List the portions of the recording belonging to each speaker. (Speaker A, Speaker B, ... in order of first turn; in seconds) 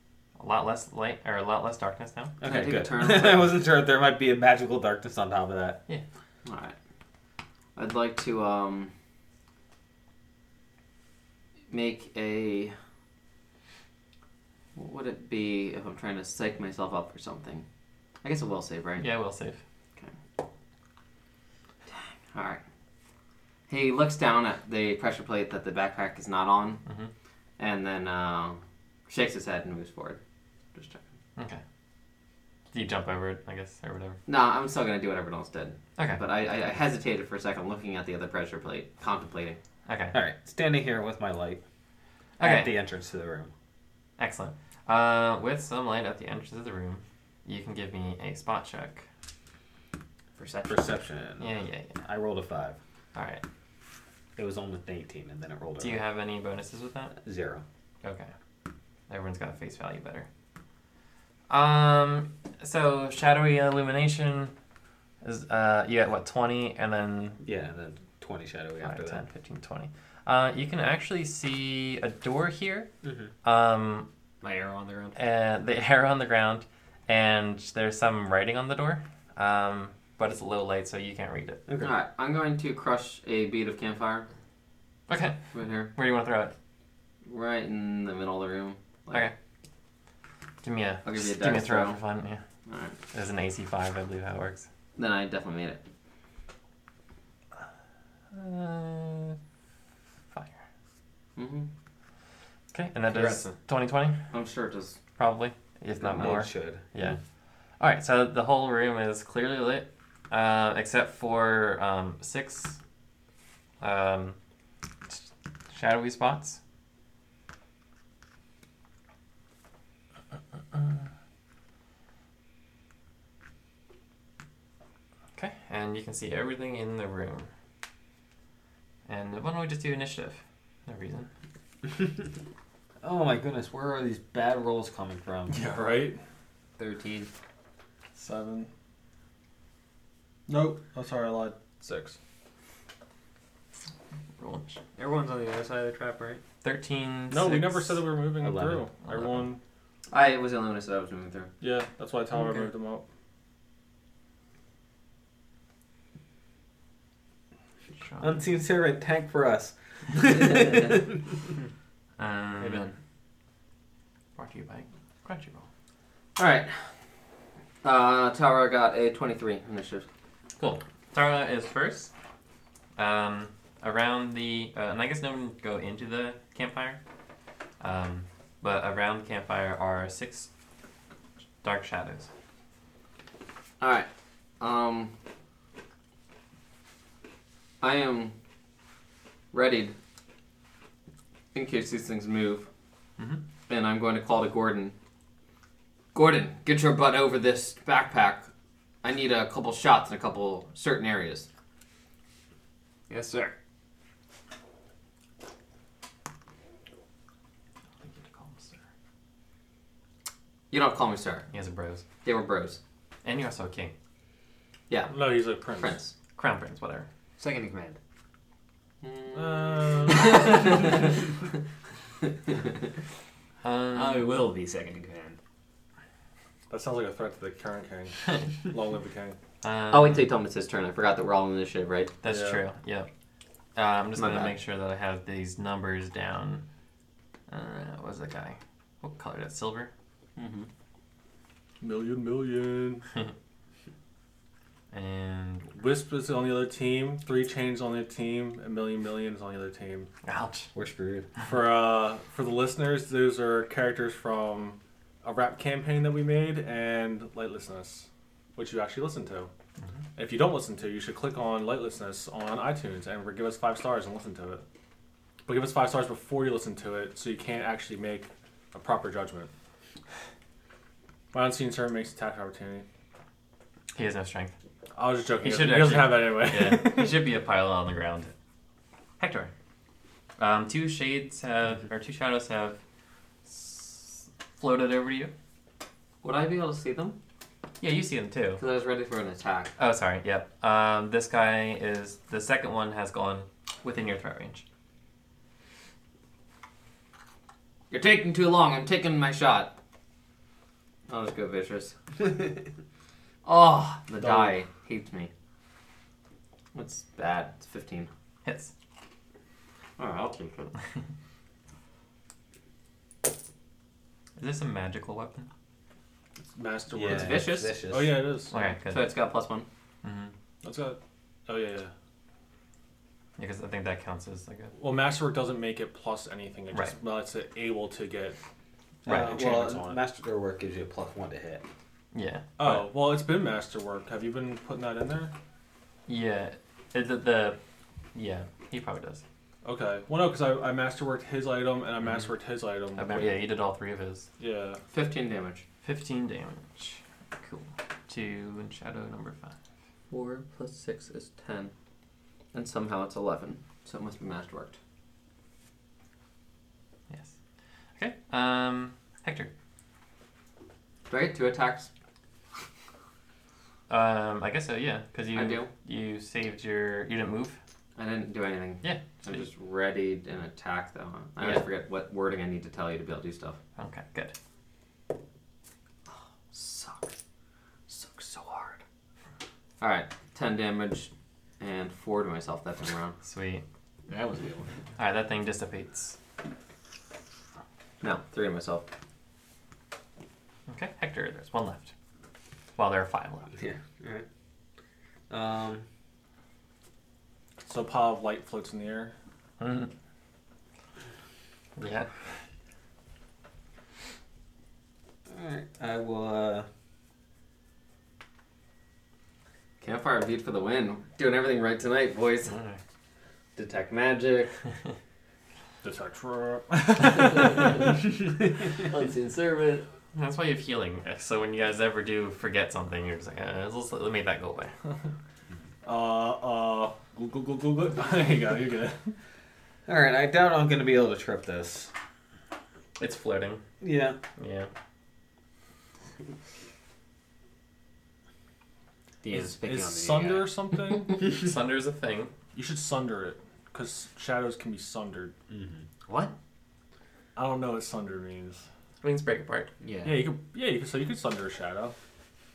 Speaker A: 0.4-2.3, 19.0-19.6, 26.9-27.1, 32.7-34.2, 39.9-40.1, 42.4-42.7, 44.2-49.0, 51.4-52.0, 53.1-53.4, 55.8-57.2, 58.0-58.3, 59.1-60.3, 61.5-64.5, 65.2-67.4, 68.8-72.9, 73.4-74.1, 75.2-81.6, 85.1-85.4, 85.9-86.5, 90.6-92.4, 93.1-94.7, 98.3-99.4, 100.3-100.6, 102.7-104.2, 105.2-107.2, 107.8-112.8, 113.8-114.4, 115.1-116.6, 125.3-127.5, 129.1-131.3, 144.4-144.8, 146.6-148.0, 149.0-149.5, 152.3-152.7, 158.0-158.4, 162.2-162.9, 164.3-165.7, 170.6-172.1, 172.9-177.0, 177.8-180.5, 181.6-182.3, 208.0-208.8, 211.5-212.0, 213.2-213.9, 216.4-217.1, 223.6-224.3, 229.6-230.2, 232.2-233.1, 233.8-236.6, 237.5-239.9, 244.9-245.7, 250.2-250.7, 273.9-274.5, 275.4-278.3, 279.2-279.5, 280.4-282.8, 283.4-285.3, 287.8-288.6, 289.8-294.6, 308.4-308.7, 314.4-315.5, 318.5-319.1, 320.0-320.3, 323.4-324.8, 329.1-329.3, 332.1-332.9, 336.1-337.6, 338.1-339.2, 342.0-342.3, 342.9-344.3, 345.8-349.5, 357.1-357.3, 357.9-359.5, 363.9-367.6, 368.8-369.5, 371.4-371.6, 373.8-374.3, 383.2-383.6, 385.0-386.2, 390.7-391.9, 392.8-393.5, 399.6-399.9, 401.8-402.1, 412.5-412.8, 420.1-424.7, 433.0-433.6, 434.4-434.7, 441.2-442.3, 449.0-449.7
Speaker B: 2.4-5.8, 40.1-41.6, 42.4-43.5, 50.7-52.8, 54.4-56.0, 57.2-57.6, 67.4-69.2, 73.0-73.3, 81.7-81.9, 106.1-107.2, 131.8-132.3, 133.0-135.6, 148.4-148.8, 158.2-161.5, 250.7-251.3, 316.9-318.3, 329.1-331.6, 393.5-394.2, 395.3-395.9, 405.3-406.7, 429.9-431.9, 433.8-434.2, 445.5-445.8
Speaker C: 2.4-3.6, 6.4-6.8, 7.8-8.9, 11.7-12.7, 14.8-17.6, 18.2-19.1, 21.9-22.6, 23.7-26.8, 27.6-30.2, 30.7-31.0, 34.3-39.6, 81.8-84.3, 85.5-85.9, 87.2-89.3, 91.0-92.0, 92.7-93.0, 95.0-95.8, 101.3-101.7, 104.3-105.0, 106.0-106.3, 150.1-151.5, 160.3-160.9, 166.4-166.9, 167.8-170.1, 183.8-184.1, 184.6-185.1, 187.8-188.3, 189.5-189.9, 191.5-192.7, 193.7-194.9, 196.1-198.5, 199.0-201.5, 210.7-211.5, 212.2-212.8, 214.9-216.1, 219.0-221.2, 222.2-222.7, 229.9-232.2, 234.2-234.6, 240.3-240.7, 286.2-287.2, 288.6-289.7, 297.9-299.7, 301.1-301.9, 303.4-305.3, 306.7-308.1, 310.0-310.7, 317.0-317.8, 318.9-319.6, 344.9-345.6, 350.1-351.7, 352.5-354.8, 361.1-361.9, 365.3-365.7, 368.0-373.6, 376.5-377.1, 377.9-378.8, 379.8-383.1, 388.0-388.9, 409.8-412.5, 413.6-414.6, 418.7-419.9
Speaker D: 50.4-50.9, 74.4-75.2, 136.8-137.3, 144.9-146.4, 162.6-162.9, 203.1-203.5, 217.4-218.0, 223.9-225.4, 384.1-384.7, 439.2-440.5, 446.1-446.3, 449.8-450.3
Speaker E: 135.5-136.2, 138.2-138.7, 140.5-142.2, 147.3-149.6, 151.6-153.0, 215.1-216.0, 219.3-221.0, 226.7-229.4, 232.2-232.6, 241.8-243.1, 245.7-250.1, 251.4-259.5, 260.1-264.6, 265.4-269.5, 271.3-272.8, 274.9-277.3, 304.2-304.5, 316.5-318.5, 320.6-321.9, 324.8-328.4, 329.1-330.0, 332.6-335.3, 339.6-343.4, 344.4-344.8, 397.6-399.1, 415.8-418.0, 425.8-429.1, 439.3-441.1, 442.5-445.3, 447.4-448.6, 450.0-451.9